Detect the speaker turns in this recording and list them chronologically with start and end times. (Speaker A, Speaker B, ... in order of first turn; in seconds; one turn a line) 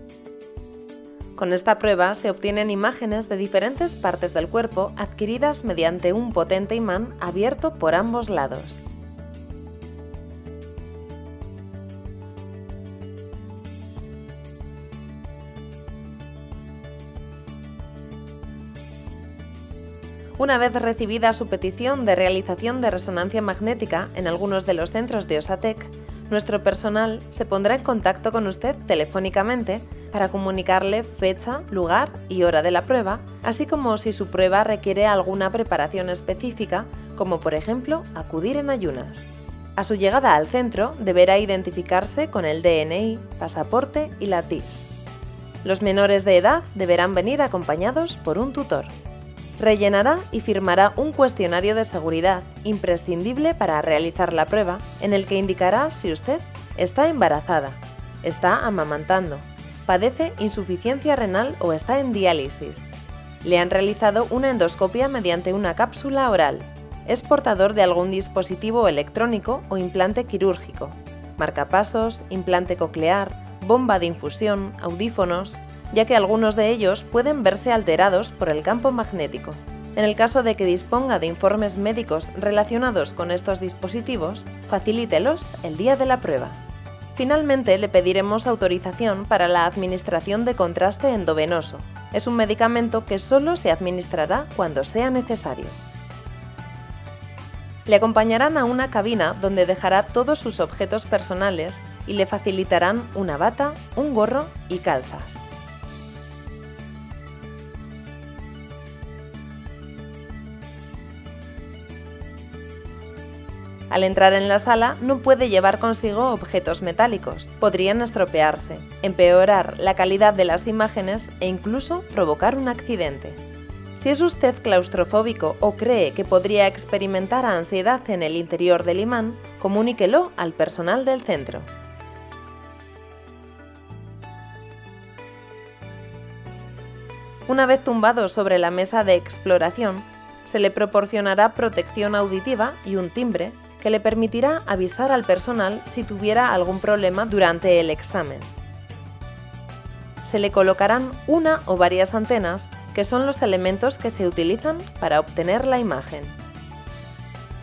Speaker A: 1.4-8.8
Speaker A: 20.4-44.9
Speaker A: 45.6-48.9
Speaker A: 49.6-62.9
Speaker A: 63.4-86.6
Speaker A: 87.1-95.8
Speaker A: 97.8-105.4
Speaker A: 113.9-123.4
Speaker A: 124.0-131.7
Speaker A: 137.5-148.5
Speaker A: 150.2-156.3